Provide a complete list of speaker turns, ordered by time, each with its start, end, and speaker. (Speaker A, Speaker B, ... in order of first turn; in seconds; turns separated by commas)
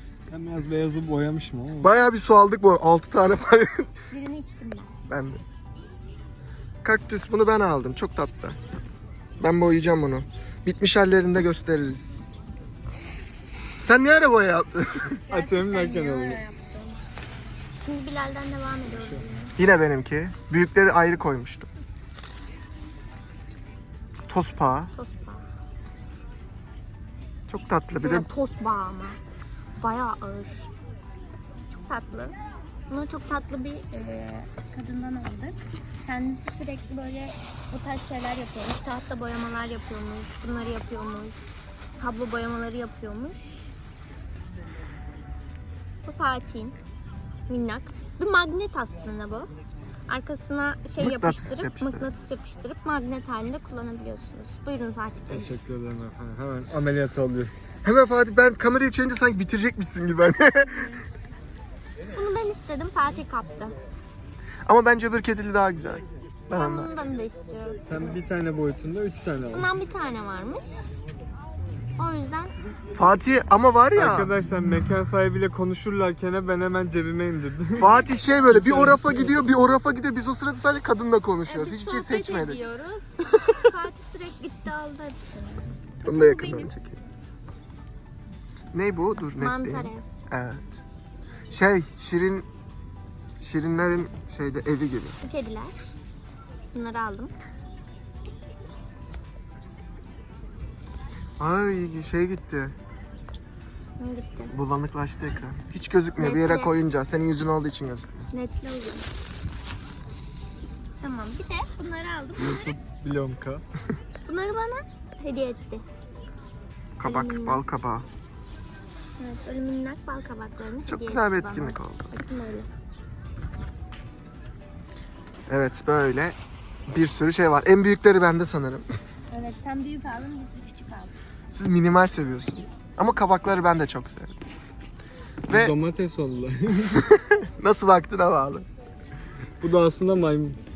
Speaker A: 0.3-2.0, Speaker B: 1.8-3.9, Speaker C: 4.1-4.9, Speaker B: 5.1-5.4, Speaker B: 6.8-8.6, Speaker B: 9.4-12.2, Speaker B: 13.8-15.2, Speaker C: 15.3-17.0, Speaker A: 15.3-16.4, Speaker C: 17.8-19.5, Speaker A: 18.9-19.2, Speaker B: 19.6-21.7, Speaker B: 24.3-24.9, Speaker C: 24.9-25.5, Speaker B: 27.5-28.3, Speaker C: 27.9-29.2, Speaker C: 29.8-30.6, Speaker C: 31.8-32.4, Speaker C: 32.9-41.4, Speaker C: 42.0-43.4, Speaker C: 46.1-46.8, Speaker C: 47.5-49.5, Speaker C: 50.1-55.5, Speaker B: 51.0-52.1, Speaker A: 55.3-57.5, Speaker B: 57.8-61.0, Speaker C: 62.1-63.8, Speaker B: 64.7-66.9, Speaker C: 66.5-67.8, Speaker A: 67.8-69.7, Speaker C: 69.5-70.8, Speaker C: 72.0-72.5, Speaker B: 73.0-74.3, Speaker A: 73.9-79.4, Speaker B: 77.8-82.6, Speaker C: 81.5-86.7, Speaker B: 86.0-87.0, Speaker B: 88.7-90.8, Speaker C: 89.4-90.0, Speaker B: 91.5-92.5, Speaker B: 93.4-95.2, Speaker C: 95.2-95.9, Speaker C: 96.7-97.3, Speaker B: 101.4-102.8, Speaker C: 104.0-104.5, Speaker B: 104.5-108.3, Speaker C: 106.2-106.7, Speaker C: 108.3-109.1, Speaker C: 111.0-112.8, Speaker A: 112.4-113.6, Speaker C: 114.2-115.8, Speaker B: 117.0-118.1, Speaker C: 117.0-117.6, Speaker C: 119.2-122.7, Speaker B: 120.8-122.1, Speaker B: 125.5-126.4, Speaker B: 126.9-128.9, Speaker C: 129.3-131.1, Speaker B: 131.5-134.4, Speaker B: 135.5-135.8, Speaker A: 135.5-137.1, Speaker B: 137.0-138.7, Speaker A: 139.6-140.6